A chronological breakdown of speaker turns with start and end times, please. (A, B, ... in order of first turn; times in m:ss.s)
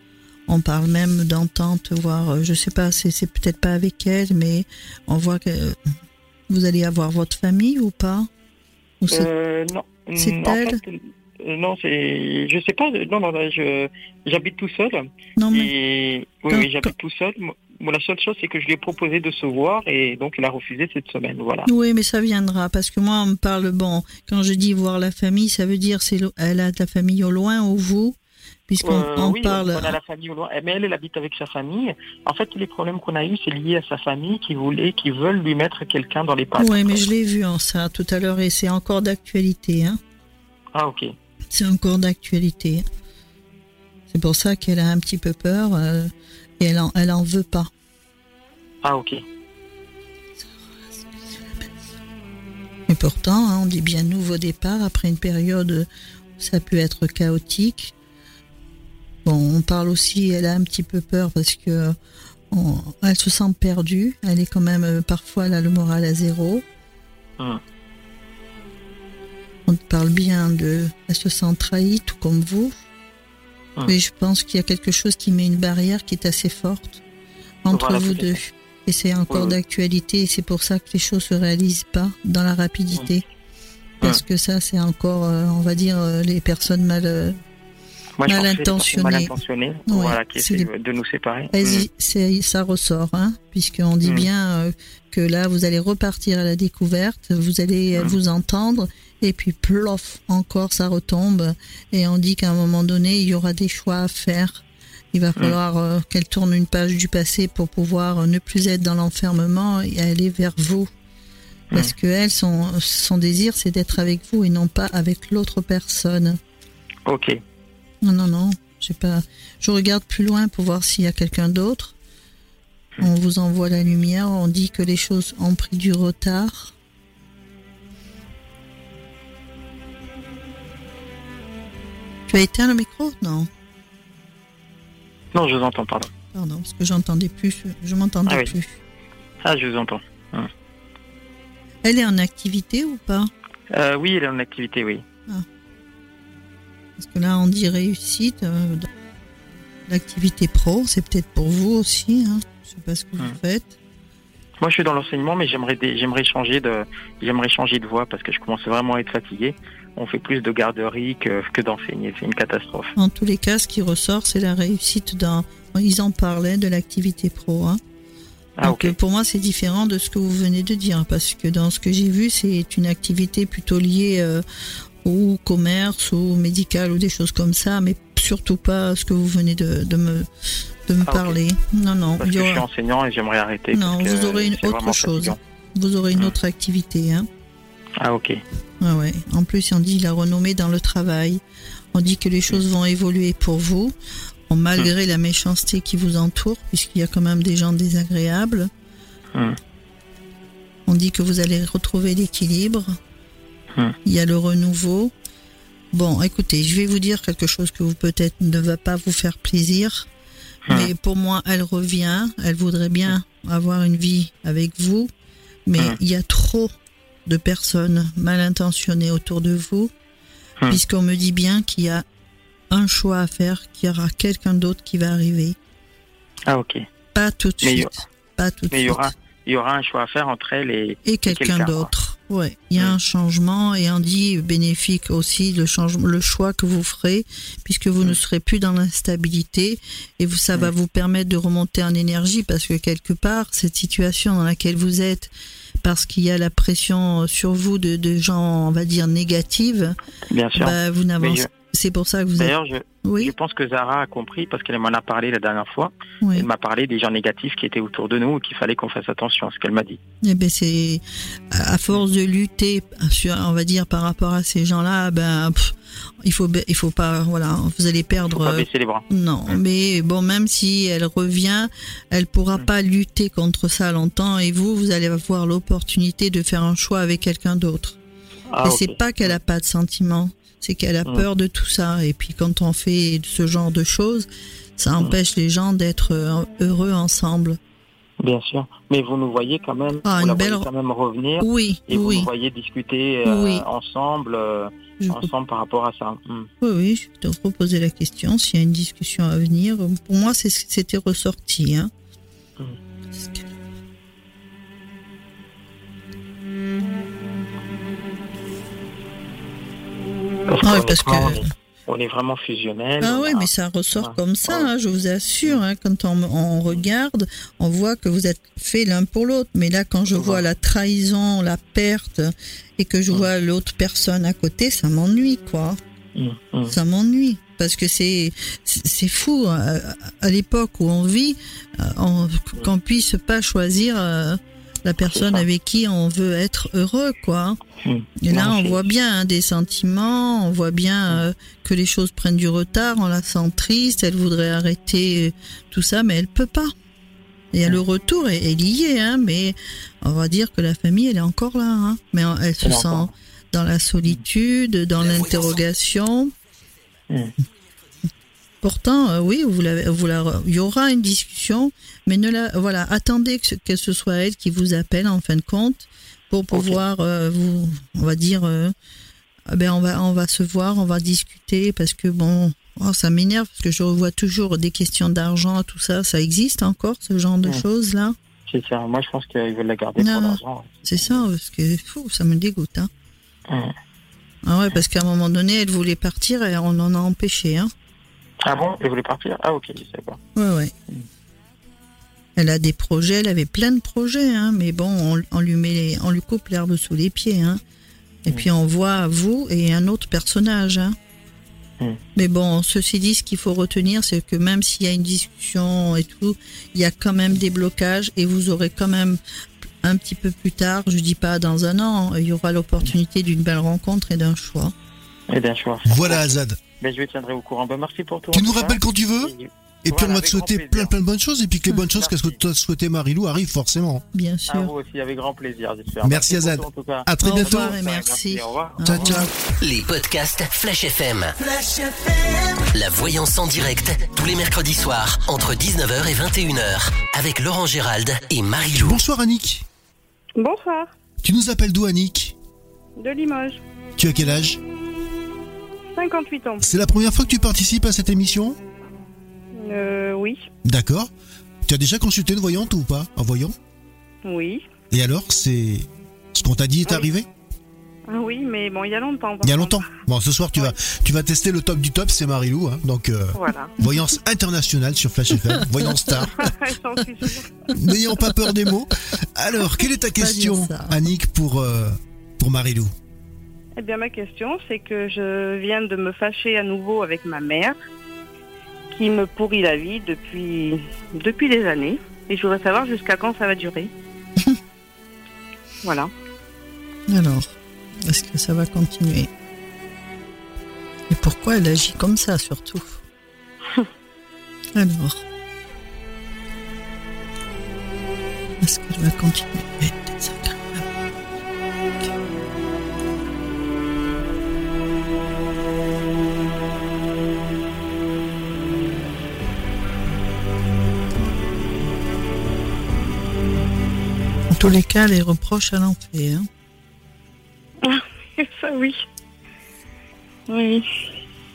0:00.5-0:05.8 A
0:06.5-0:08.3 A
0:09.0-0:09.3 A
0:09.1-0:21.7 B
0:10.2-0:10.8 A
0:15.4-0:15.7 A
0:16.5-0:16.9 A
0:21.7-0:30.0 A
0:28.8-0:37.0 B
0:36.6-0:40.0 A
0:40.8-0:41.1 B
0:41.5-0:42.8 A
0:44.1-0:47.7 A
0:48.8-0:49.2 B
0:50.4-0:51.8 A
0:52.9-0:57.9 A
0:59.2-1:02.0 A
1:02.5-1:06.6 A
1:09.7-1:12.8 A
1:13.9-1:17.0 A
1:17.6-1:23.2 A
1:17.7-1:18.4 B
1:19.3-1:19.6 B
1:24.0-1:27.4 A
1:28.2-1:31.9 B
1:28.3-1:29.4 A
1:29.9-1:30.7 A
1:31.5-1:50.9 A
1:34.0-1:34.3 B
1:51.7-1:56.4 A
1:57.1-1:57.4 B
1:58.0-2:01.9 A
2:03.0-2:06.7 A
2:12.3-2:13.5 A
2:15.3-2:16.1 B
2:16.3-2:18.8 A
2:18.3-2:18.5 B
2:19.4-2:20.5 B
2:21.8-2:23.3 A
2:23.7-2:25.0 B
2:27.0-2:28.9 A
2:29.9-2:33.7 A
2:34.6-2:42.9 B
2:43.0-2:47.8 A
2:48.6-2:48.9 B
2:48.6-2:54.4 A
2:55.0-3:00.3 A
3:00.9-3:02.6 A
3:01.0-3:01.4 B
3:02.2-3:05.4 B
3:03.7-3:07.3 A
3:08.0-3:08.4 B
3:08.8-3:11.4 A
3:11.9-3:13.9 A
3:14.5-3:18.7 A
3:20.9-3:23.0 A
3:24.0-3:25.1 A
3:25.9-3:30.1 A
3:30.7-3:35.1 A
3:35.7-3:36.7 A
3:37.2-3:39.9 A
3:40.7-3:42.0 A
3:42.7-3:45.6 A
3:46.5-3:46.8 B
3:47.1-3:49.1 A
3:47.6-3:47.9 B
3:48.7-3:51.9 B
3:51.1-4:05.3 A
4:05.8-4:10.0 A
4:10.3-4:11.5 B
4:10.6-4:13.3 A
4:12.4-4:20.0 B
4:16.2-4:16.5 A
4:20.2-4:38.0 A
4:28.3-4:29.6 B
4:38.5-4:39.4 B
4:38.6-4:47.6 A
4:48.2-4:56.5 B
4:50.0-4:50.7 A
4:51.4-4:52.3 A
4:53.2-4:53.6 A
4:55.0-4:55.3 A
4:56.6-5:01.9 A
5:03.1-5:03.5 A
5:10.5-5:14.7 B
5:10.6-5:11.4 A
5:13.0-5:25.8 A
5:20.2-5:20.4 B
5:26.2-5:26.8 B
5:26.7-5:37.6 A
5:35.0-5:35.4 B
5:37.8-5:38.9 B
5:38.2-5:46.7 A
5:47.5-5:56.3 A
5:52.6-5:53.1 B
5:58.6-6:08.7 A
6:06.5-6:06.8 B
6:09.5-6:18.2 A
6:18.5-6:21.2 B
6:20.0-6:22.9 A
6:23.5-6:23.7 B
6:24.4-6:27.7 A
6:28.4-6:30.2 B
6:30.4-6:30.7 A
6:32.4-6:37.6 A
6:38.3-6:41.0 A
6:42.2-6:49.2 A
6:49.8-6:54.7 A
6:55.3-7:00.9 B
6:55.9-6:56.6 C
6:58.3-6:59.3 C
6:59.8-7:04.0 C
7:01.9-7:02.4 B
7:04.1-7:04.7 A
7:04.5-7:09.2 B
7:06.0-7:07.7 C
7:07.2-7:09.3 A
7:08.8-7:09.3 C
7:09.6-7:11.4 D
7:12.4-7:19.0 D
7:18.8-7:19.6 C
7:20.4-7:20.9 E
7:21.2-7:22.3 C
7:23.0-7:23.6 E
7:24.0-7:24.6 C
7:25.9-7:26.6 E
7:26.6-7:28.6 C
7:29.5-7:30.5 E
7:30.6-7:31.1 C
7:31.6-7:33.6 C
7:34.2-7:34.6 E
7:34.9-7:37.3 C
7:38.1-7:39.8 E
7:39.4-7:46.5 C
7:43.3-7:43.8 E
7:45.4-7:45.8 A
7:46.3-7:47.5 E
7:47.7-7:52.9 C
7:50.2-7:51.0 A
7:53.8-7:57.8 E
7:58.9-8:03.9 E
8:05.8-8:06.1 E
8:07.1-8:07.5 A
8:08.0-8:09.3 A
8:11.1-8:13.0 A
8:14.8-8:15.2 A
8:18.6-8:20.9 A
8:34.5-8:36.5 A
8:37.8-8:39.0 E
8:40.5-8:40.9 E